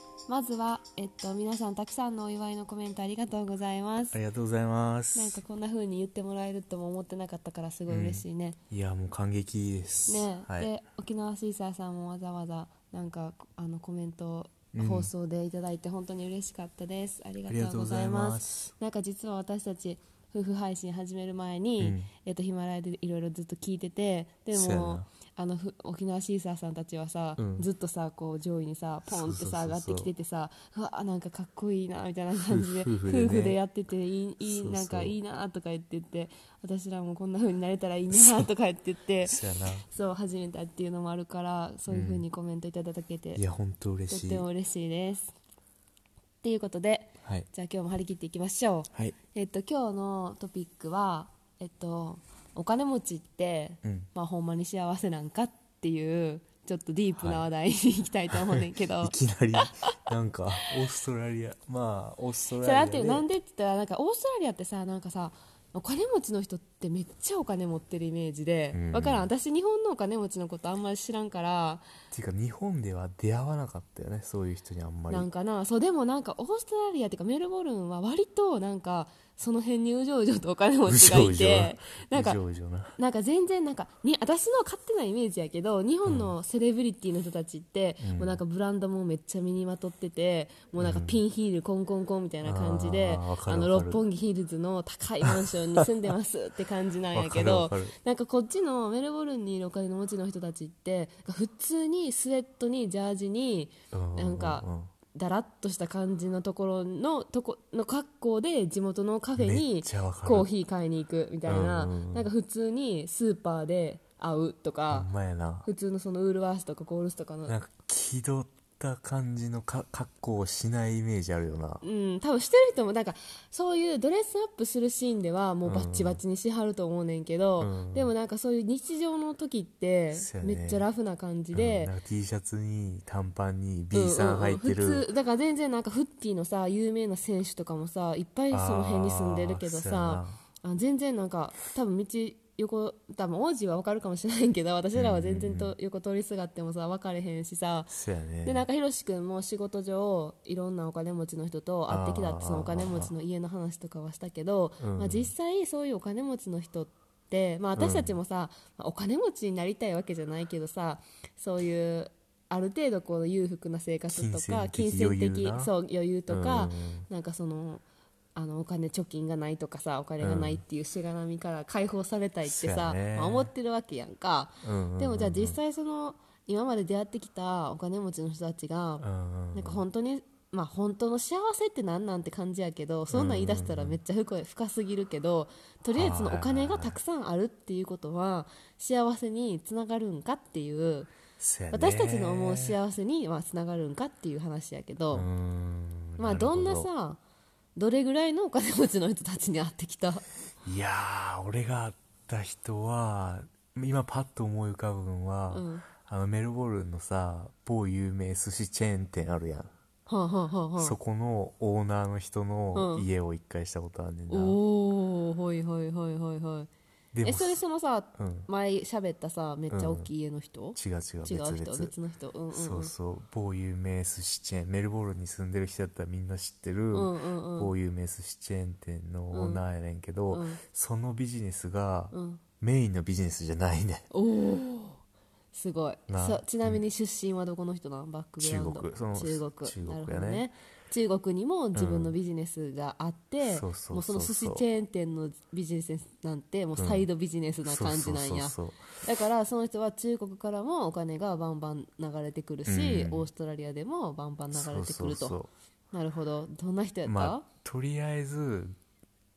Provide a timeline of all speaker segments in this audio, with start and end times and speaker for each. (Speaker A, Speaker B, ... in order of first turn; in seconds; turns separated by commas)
Speaker A: 0.3-4.2, Speaker B: 4.1-5.4, Speaker A: 5.1-8.6, Speaker B: 7.9-10.7, Speaker A: 10.1-43.4, Speaker B: 14.7-15.1, Speaker B: 17.5-18.7, Speaker B: 21.8-22.1, Speaker B: 24.5-25.1, Speaker B: 27.4-27.7, Speaker B: 29.1-30.1, Speaker B: 32.4-33.6, Speaker B: 34.4-35.1, Speaker B: 38.1-38.5, Speaker B: 39.2-39.9, Speaker B: 41.9-42.2, Speaker B: 43.3-44.5, Speaker A: 44.1-45.3, Speaker A: 46.4-60.0, Speaker B: 57.2-57.4, Speaker B: 58.3-63.3, Speaker A: 62.6-71.8, Speaker B: 68.7-69.3, Speaker B: 72.1-75.3, Speaker A: 75.1-82.4, Speaker B: 80.8-83.0, Speaker A: 83.0-115.1, Speaker B: 86.0-86.3, Speaker B: 88.0-88.4, Speaker B: 90.8-91.2, Speaker B: 92.4-94.0, Speaker B: 95.2-95.8, Speaker B: 97.1-97.9, Speaker B: 103.9-104.9, Speaker B: 109.4-110.5, Speaker B: 111.5-112.3, Speaker B: 114.9-115.7, Speaker A: 115.6-117.5, Speaker B: 117.5-121.8, Speaker A: 121.8-131.9, Speaker B: 125.6-126.2, Speaker B: 127.6-128.1, Speaker B: 130.1-130.8, Speaker B: 131.5-135.1, Speaker A: 133.9-147.9, Speaker B: 138.5-140.4, Speaker B: 144.9-145.7, Speaker B: 147.9-148.7, Speaker A: 148.4-167.8, Speaker B: 151.9-153.1, Speaker B: 154.8-155.3, Speaker B: 157.8-158.2, Speaker B: 164.1-165.7, Speaker B: 166.3-167.1, Speaker A: 168.3-191.1, Speaker B: 170.2-170.6, Speaker B: 172.4-173.5, Speaker B: 174.6-175.6, Speaker B: 179.0-179.8, Speaker B: 183.1-184.0, Speaker B: 185.9-187.0, Speaker B: 191.4-192.8, Speaker A: 191.7-195.3, Speaker B: 195.1-196.9, Speaker A: 196.2-197.2, Speaker A: 197.8-200.2, Speaker B: 200.6-209.7, Speaker A: 205.5-205.8, Speaker A: 210.1-210.9, Speaker B: 210.8-214.6, Speaker A: 212.7-213.1, Speaker A: 214.3-216.7, Speaker B: 217.1-217.6, Speaker A: 217.2-222.9, Speaker B: 218.2-218.5, Speaker B: 219.7-220.1, Speaker B: 220.7-221.9, Speaker B: 222.5-234.1, Speaker A: 226.9-227.7, Speaker A: 229.3-229.6, Speaker A: 230.3-230.6, Speaker A: 232.1-232.4, Speaker A: 234.1-235.0, Speaker A: 235.5-255.4, Speaker B: 236.1-236.8, Speaker B: 238.4-240.4, Speaker B: 241.7-242.2, Speaker B: 243.4-244.6, Speaker B: 246.8-247.1, Speaker B: 247.6-248.8, Speaker B: 252.7-253.3, Speaker B: 254.5-255.5, Speaker A: 255.9-257.4, Speaker B: 257.0-258.7